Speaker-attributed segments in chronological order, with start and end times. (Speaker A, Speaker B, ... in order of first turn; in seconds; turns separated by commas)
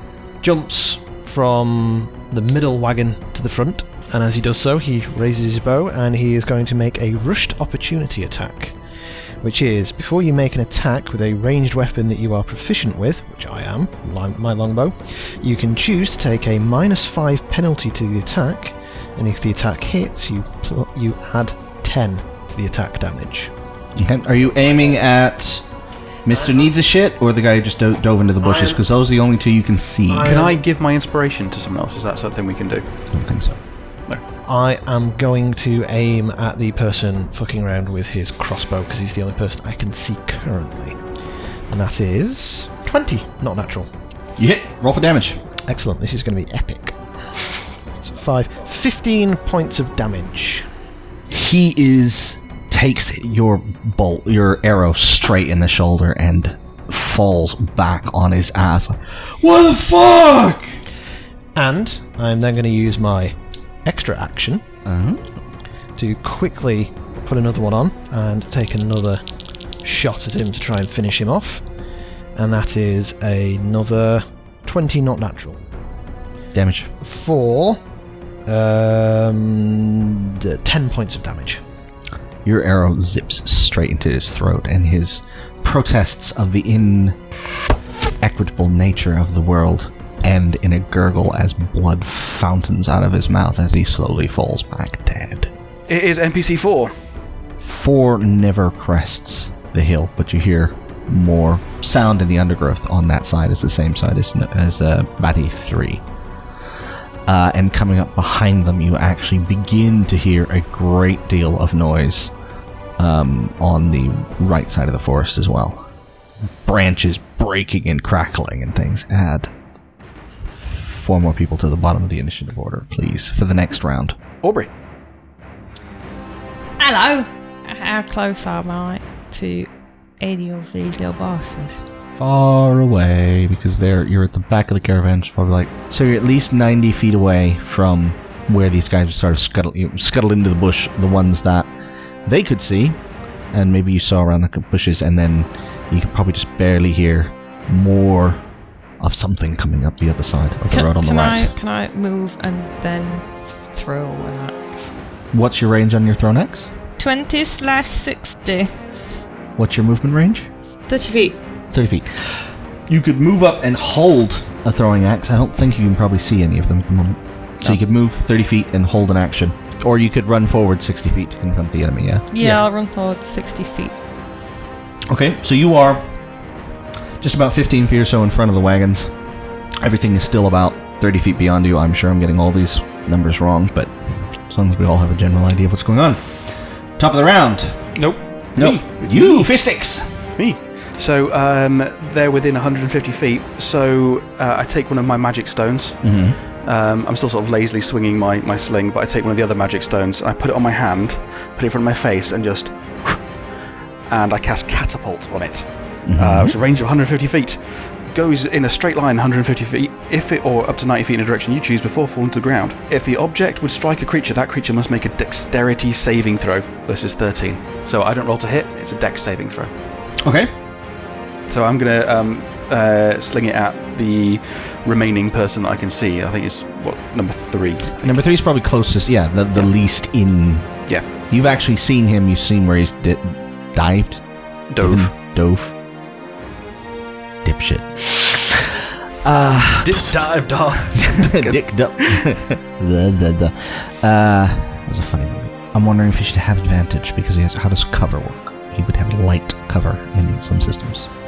Speaker A: 0.4-8.8, Speaker A: 9.4-23.5, Speaker B: 24.0-25.6, Speaker B: 26.2-30.3, Speaker A: 28.4-28.8, Speaker A: 30.1-30.6, Speaker C: 30.2-32.9, Speaker B: 33.1-33.6, Speaker A: 34.5-41.0, Speaker A: 41.7-43.9, Speaker B: 44.4-45.4, Speaker A: 45.7-47.0, Speaker A: 48.0-50.6, Speaker B: 51.3-60.8, Speaker A: 61.5-64.6, Speaker B: 64.8-65.2, Speaker A: 66.0-69.2, Speaker A: 69.8-71.7, Speaker A: 72.3-75.6, Speaker B: 76.5-76.9, Speaker A: 77.0-77.8, Speaker A: 78.5-81.6, Speaker B: 82.4-87.2, Speaker B: 88.2-95.5, Speaker C: 95.9-96.9, Speaker B: 97.6-106.0, Speaker B: 107.3-112.3, Speaker B: 113.0-115.9, Speaker B: 116.6-119.5, Speaker B: 120.7-124.1, Speaker C: 124.4-124.7, Speaker D: 126.8-129.7, Speaker D: 130.2-131.8, Speaker B: 132.2-141.7, Speaker B: 142.2-143.0, Speaker B: 143.5-148.4, Speaker B: 149.0-151.5, Speaker D: 150.7-154.9, Speaker B: 155.3-156.7, Speaker D: 157.0-158.7, Speaker B: 159.6-160.5, Speaker D: 160.9-161.4, Speaker B: 161.7-172.6, Speaker D: 172.3-173.9, Speaker B: 175.1-176.1, Speaker B: 177.2-179.1, Speaker B: 179.8-186.2, Speaker B: 187.0-187.9, Speaker C: 187.9-189.5, Speaker B: 188.5-190.1, Speaker C: 190.3-196.0, Speaker B: 196.0-196.4, Speaker C: 196.6-203.2, Speaker C: 204.1-219.7, Speaker B: 206.1-206.6, Speaker B: 220.2-220.5, Speaker C: 221.5-228.2, Speaker B: 228.0-235.7, Speaker C: 234.7-235.1, Speaker B: 237.4-238.6, Speaker B: 239.2-240.1, Speaker C: 239.8-242.2, Speaker B: 240.9-251.1